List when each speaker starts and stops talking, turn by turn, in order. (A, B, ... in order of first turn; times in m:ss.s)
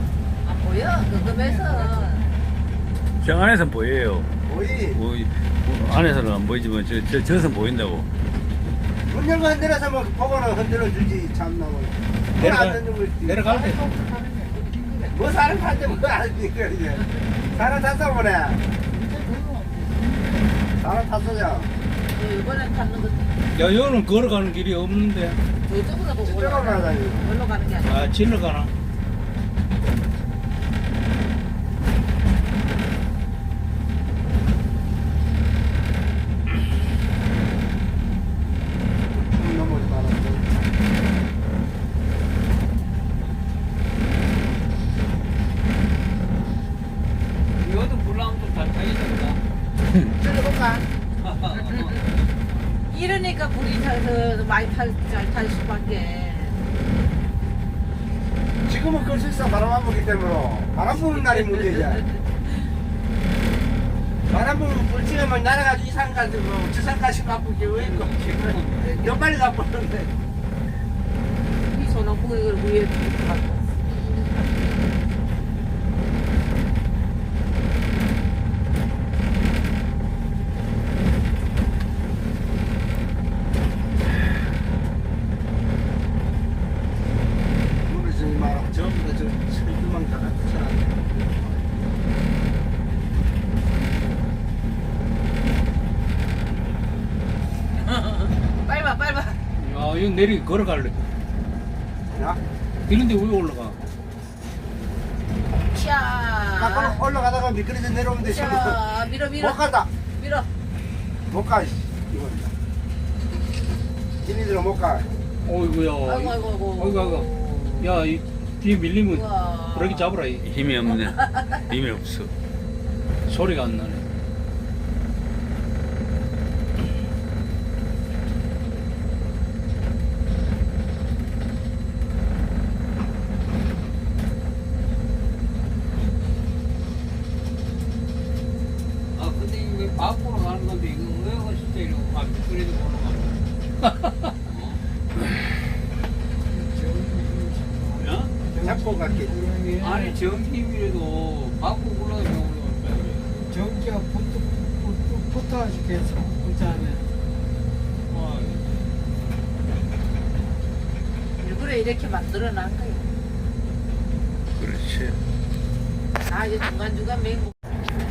0:00.4-0:02.3 A
0:03.2-0:04.3 B
0:04.4-0:05.0 C
0:04.9-0:08.1 B
0:09.1-0:13.5 C
0:12.4-0:13.8 D
0:15.1-0:18.6 C
0:20.7-0:21.7 C
0:22.1-0:23.4 A
0:23.5-0:25.4 D
0:25.6-0:28.1 A
0:26.2-0:27.3 C
0:27.8-0:28.7 D
0:39.2-0:40.7 C
0:47.6-0:49.4 E
0:50.2-0:50.8 C
0:51.2-0:52.0 E
0:51.5-0:52.1 A
0:52.9-0:56.6 A
0:58.6-1:02.0 C
1:04.3-1:10.1 C
1:07.6-1:09.1 E
1:11.6-1:14.9 A
1:27.9-1:31.6 C
1:37.8-1:39.4 A
1:39.6-1:41.0 D
1:42.1-1:42.4 C
1:42.9-1:43.8 D
1:45.7-1:47.0 A
1:46.6-1:48.8 C
1:48.2-1:50.5 A
1:49.4-1:49.9 C
1:51.3-1:52.5 C
1:54.2-1:55.1 C
1:55.4-1:57.3 D
1:56.0-1:58.0 A
1:57.8-2:00.4 D
1:59.0-2:00.3 A
2:00.4-2:02.3 B
2:00.8-2:01.6 A
2:03.2-2:04.0 D
2:19.2-2:23.4 E
2:24.4-2:24.8 E
2:26.5-2:27.9 F
2:27.9-2:28.3 E
2:28.6-2:29.6 C
2:29.4-2:29.7 F
2:29.7-2:33.3 E
2:33.5-2:37.1 F
2:38.1-2:38.8 E
2:41.4-2:43.1 A
2:44.6-2:45.2 B
2:46.2-2:47.5 A